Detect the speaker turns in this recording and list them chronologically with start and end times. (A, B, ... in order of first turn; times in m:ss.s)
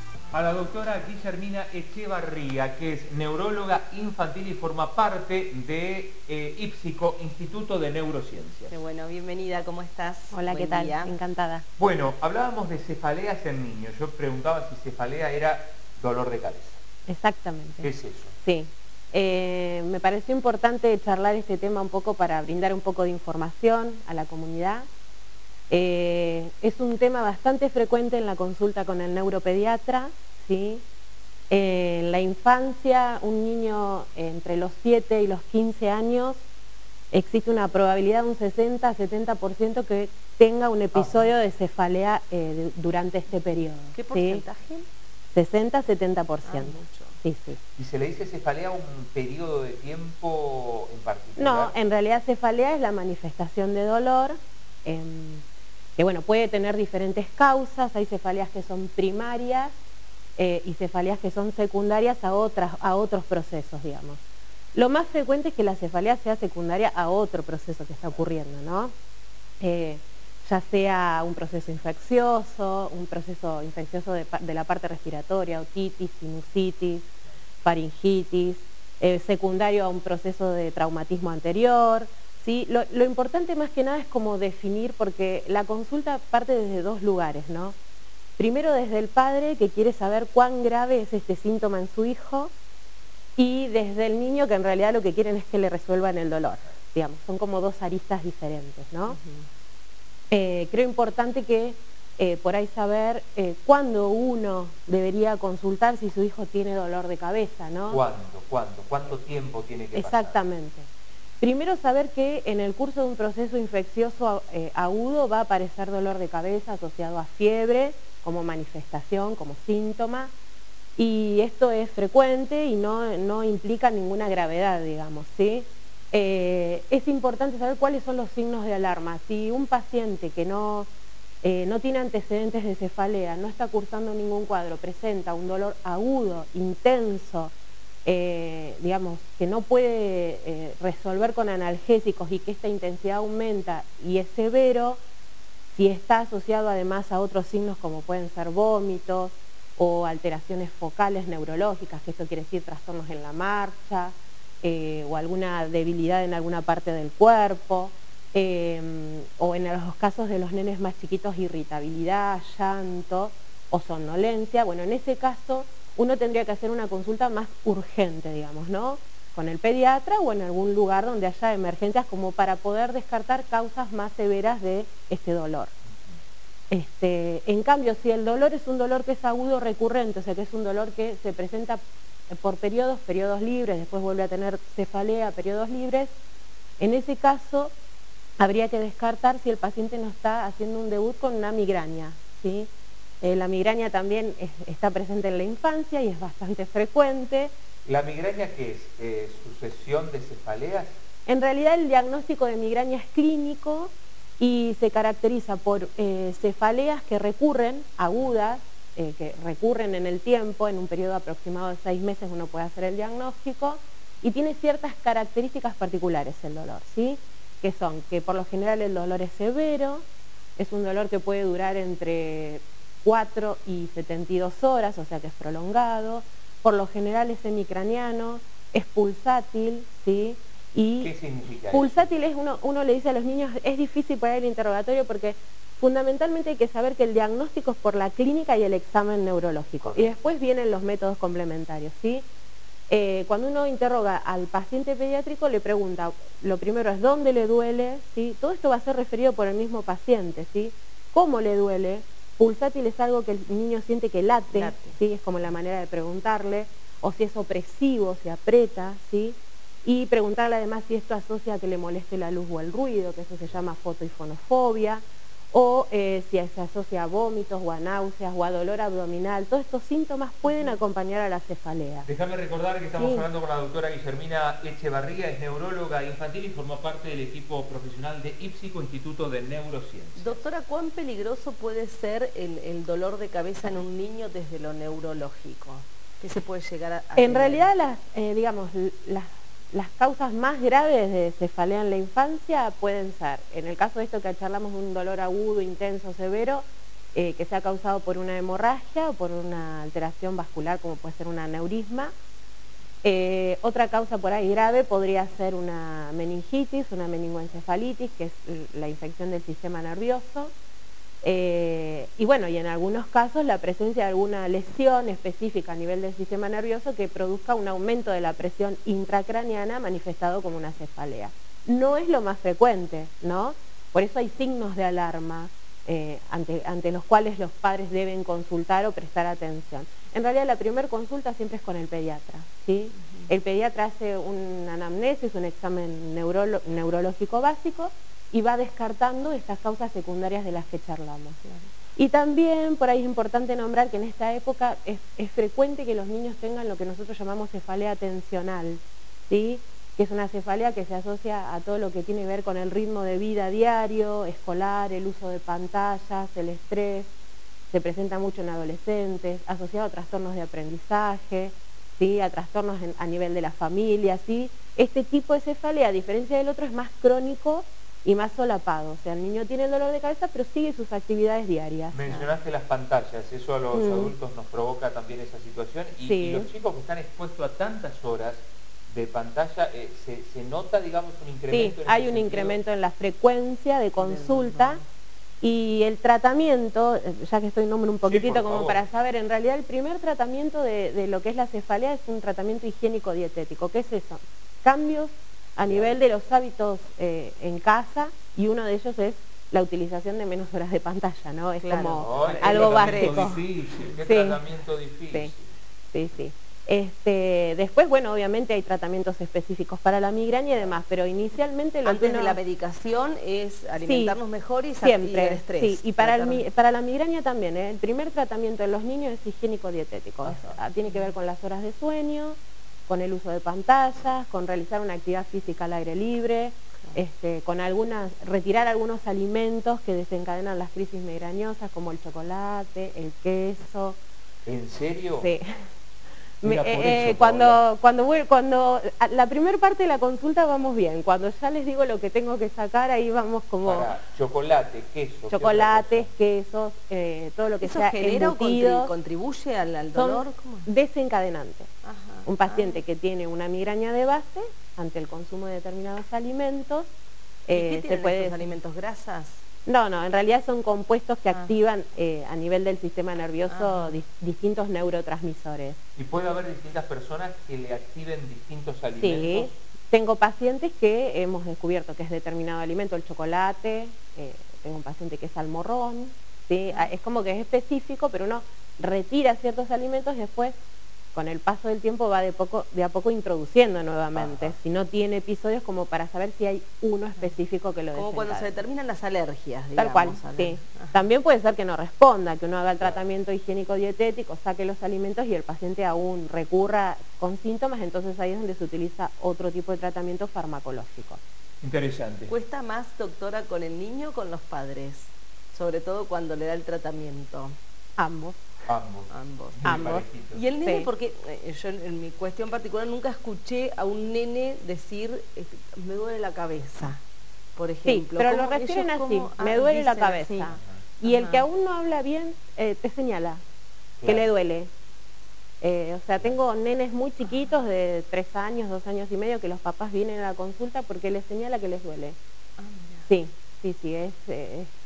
0:00.3-0:08.8 A
0:08.7-0:11.1 B
0:10.3-0:11.7 C
0:11.8-0:16.8 A
0:17.1-0:17.9 C
0:17.8-0:18.3 A
0:18.4-0:24.8 C
0:25.7-0:30.8 C
0:31.5-0:36.4 C
0:37.1-0:44.4 C
0:40.9-0:41.3 A
0:43.9-0:44.9 B
0:45.3-0:47.6 C
0:46.4-0:47.2 B
0:47.8-0:51.7 A
0:51.4-0:55.4 C
0:56.0-0:59.7 C
1:00.4-1:04.2 C
1:04.7-1:08.9 C
1:09.6-1:17.1 C
1:17.6-1:27.7 C
1:28.4-1:32.5 C
1:33.4-1:39.2 C
1:39.1-1:39.5 B
1:40.3-1:48.0 C
1:47.9-1:50.4 A
1:49.9-1:50.9 C
1:51.4-2:00.3 C
2:01.0-2:10.9 C
2:11.4-2:17.5 C
2:18.0-2:25.0 C
2:25.7-2:55.7 C
2:56.7-3:06.1 C
3:06.8-3:07.7 C
3:08.4-3:12.7 C
3:13.2-3:17.5 C
3:17.8-3:21.0 A
3:21.2-3:40.0 C
3:40.6-3:51.1 C
3:51.0-3:52.1 A
3:51.7-4:02.2 C
3:59.8-4:00.1 A
4:02.9-4:32.1 C
4:14.5-4:15.0 B
4:30.4-4:30.8 B
4:32.0-4:40.4 A
4:32.9-4:33.2 C
4:40.2-4:47.7 B
4:47.2-5:02.1 C
5:03.0-5:10.5 C
5:11.2-5:41.4 C
5:32.9-5:33.3 B
5:41.4-5:41.7 B
5:42.0-5:57.1 C
5:57.7-6:12.1 C
6:11.9-6:22.6 A
6:13.7-6:14.1 C
6:16.0-6:16.4 C
6:21.5-6:24.8 C
6:24.0-6:24.8 B
6:25.4-6:43.4 C
6:28.0-6:28.8 A
6:35.6-6:36.0 A
6:41.6-6:43.4 B
6:42.0-6:45.4 A
6:44.0-6:44.4 C
6:45.9-6:52.4 C
6:51.8-6:56.4 B
6:53.8-6:54.2 C
6:54.8-7:02.4 C
7:00.2-7:01.1 B
7:02.9-7:14.0 C
7:14.4-7:15.3 A
7:15.2-7:15.4 C
7:16.4-7:23.9 C
7:16.4-7:17.6 A
7:23.6-7:26.1 A
7:25.3-7:28.9 C
7:27.6-7:30.7 B
7:29.9-7:31.7 C
7:31.8-7:32.8 B
7:32.2-7:36.9 C
7:37.4-7:38.6 C
7:37.5-7:39.4 B
7:39.6-7:45.8 C
7:43.5-7:44.0 B
7:46.0-7:49.5 A
7:49.0-8:00.5 C
8:01.1-8:08.6 C
8:04.2-8:04.5 A
8:07.9-8:11.1 B
8:09.7-8:21.2 C
8:21.6-8:22.3 A
8:22.3-8:27.6 B
8:28.0-8:28.4 C
8:28.7-8:30.4 A
8:29.1-8:37.0 B
8:29.6-8:30.1 C
8:30.6-8:30.9 C
8:37.6-8:41.5 B
8:37.8-8:43.4 C
8:44.0-8:44.3 A
8:44.0-8:44.7 C
8:45.6-8:52.2 C
8:47.2-8:47.5 B
8:52.6-8:53.1 B
8:53.1-8:54.7 C